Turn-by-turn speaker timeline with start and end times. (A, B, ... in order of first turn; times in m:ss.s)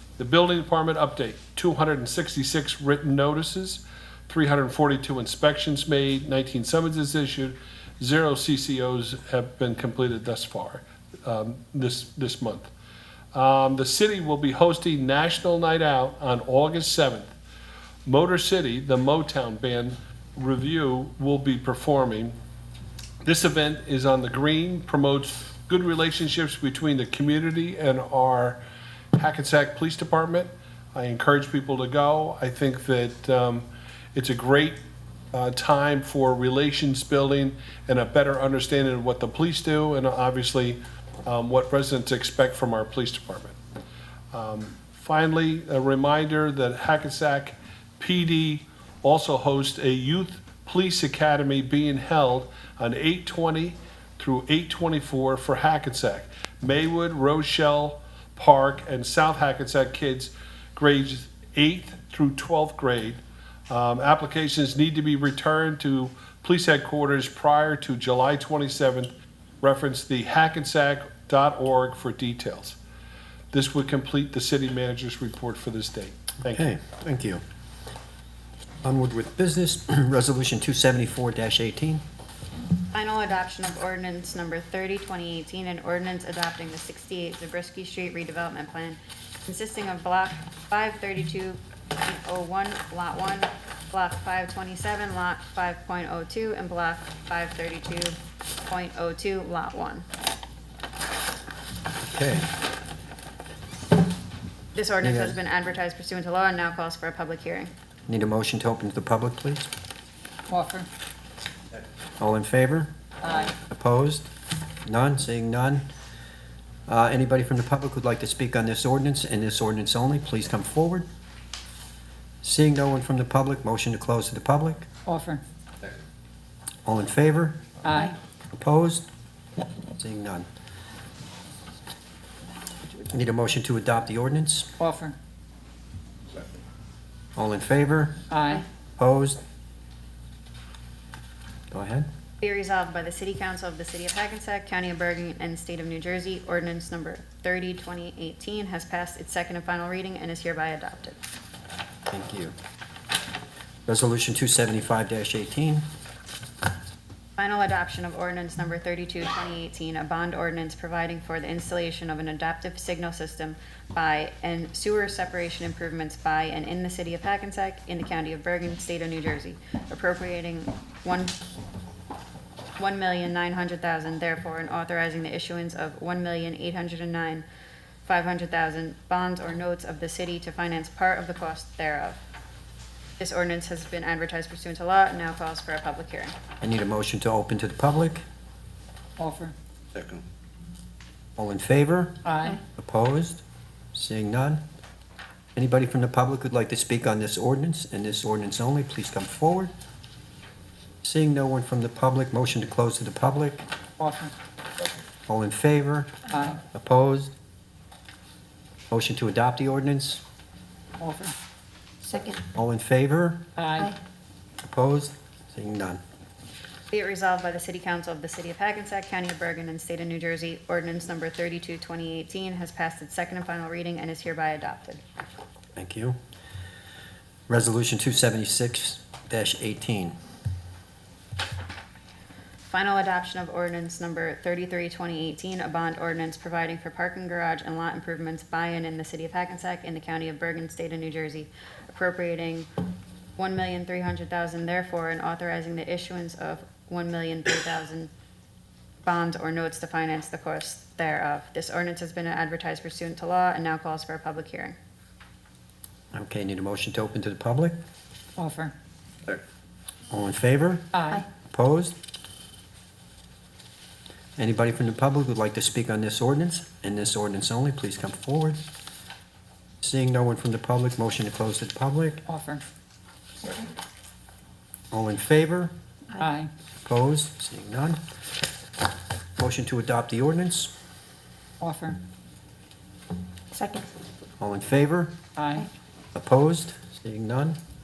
0:00.2-0:12.7 A
0:13.3-0:17.3 A
0:18.1-0:22.4 A
0:23.2-0:28.6 A
0:29.2-0:34.8 A
0:35.3-0:43.6 A
0:44.3-1:12.8 A
1:13.5-1:16.6 A
1:16.5-1:17.4 B
1:18.8-1:22.0 B
1:22.9-1:38.2 C
1:38.7-1:40.1 C
1:42.0-1:42.5 B
1:44.8-1:47.7 C
1:45.0-1:45.4 B
1:48.1-1:49.7 B
1:50.5-1:50.9 D
1:52.2-1:52.9 B
1:53.2-1:53.6 D
1:53.6-1:54.3 B
1:54.8-1:55.8 B
1:56.9-2:01.1 B
2:02.4-2:04.9 B
2:05.1-2:05.4 D
2:06.8-2:07.6 B
2:07.8-2:08.2 D
2:08.6-2:09.0 B
2:10.0-2:10.5 B
2:13.0-2:14.7 B
2:14.8-2:15.2 D
2:17.4-2:18.2 B
2:18.3-2:18.7 D
2:19.0-2:19.4 B
2:21.7-2:22.1 B
2:22.4-2:31.2 C
2:32.1-2:32.5 B
2:33.9-2:35.8 B
2:37.4-2:51.4 C
2:52.8-2:57.4 C
2:58.1-3:02.2 C
3:03.2-3:06.4 C
3:06.6-3:08.2 B
3:09.2-3:09.5 D
3:11.4-3:13.4 B
3:12.2-3:12.6 D
3:13.9-3:14.6 B
3:15.6-3:19.7 B
3:21.0-3:23.7 B
3:24.0-3:24.3 D
3:25.3-3:27.3 B
3:26.3-3:26.6 D
3:28.9-3:30.2 B
3:31.0-3:31.4 D
3:32.1-3:32.4 D
3:32.5-3:33.4 B
3:33.6-3:34.0 D
3:34.6-3:36.0 B
3:36.9-3:45.0 C
3:45.8-3:46.2 B
3:47.5-3:50.2 B
3:52.7-4:02.7 C
4:03.4-4:08.1 C
4:09.0-4:14.8 C
4:16.1-4:17.7 B
4:18.4-4:18.7 D
4:20.1-4:20.9 B
4:20.9-4:21.3 D
4:21.5-4:22.0 B
4:24.4-4:28.6 B
4:29.8-4:32.2 B
4:32.3-4:32.6 D
4:34.9-4:35.7 B
4:36.1-4:36.5 D
4:36.8-4:38.0 B
4:39.4-4:40.7 B
4:41.6-4:42.0 D
4:43.5-4:43.9 D
4:44.4-4:45.1 B
4:45.4-4:45.7 D
4:46.1-4:47.6 B